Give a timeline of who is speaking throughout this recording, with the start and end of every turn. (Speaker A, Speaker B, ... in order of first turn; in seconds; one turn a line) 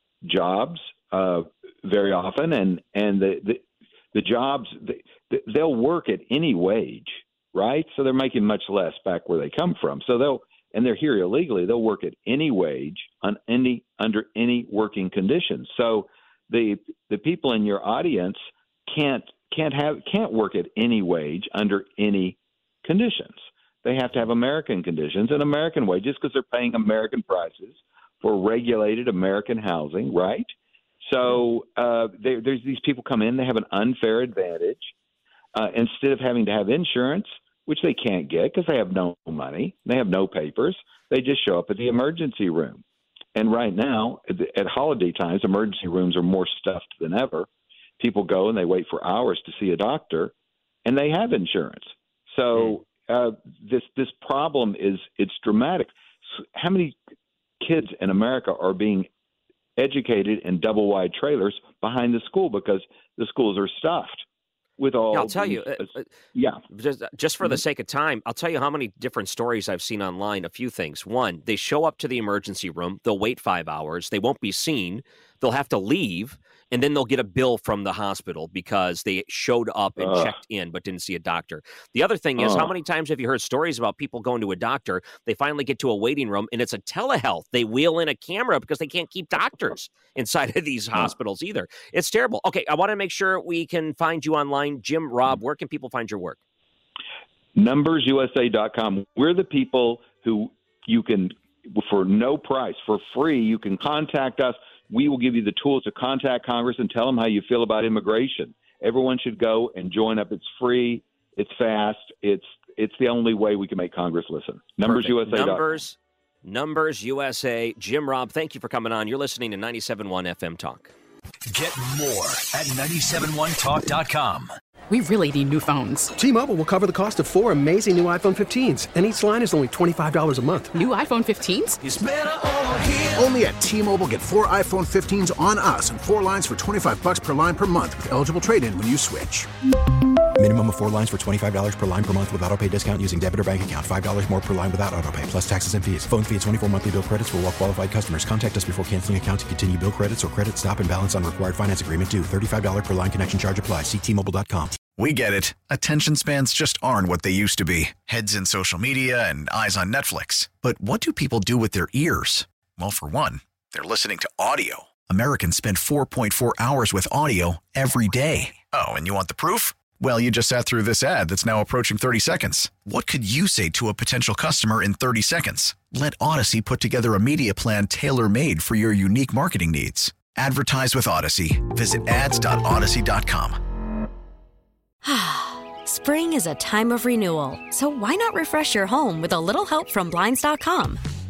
Speaker A: 0.2-30.5
Speaker A: 31.0-34.9
Speaker A: 35.5-42.8
Speaker A: 43.4-47.5
Speaker A: 48.0-50.3
Speaker A: 50.9-55.9
Speaker A: 56.5-57.0
Speaker A: 57.6-59.1
Speaker A: 59.8-64.2
Speaker A: 64.8-66.6
Speaker B: 65.1-66.0
Speaker B: 66.7-96.4
Speaker A: 80.0-80.3
Speaker A: 82.4-82.7
Speaker A: 97.5-115.8
Speaker B: 114.8-120.9
Speaker C: 121.5-124.5
Speaker D: 124.9-126.1
Speaker E: 126.2-130.7
Speaker D: 130.7-131.8
Speaker C: 131.8-133.3
Speaker F: 133.2-139.5
Speaker G: 140.4-154.9
Speaker H: 155.0-183.5
Speaker I: 185.0-191.0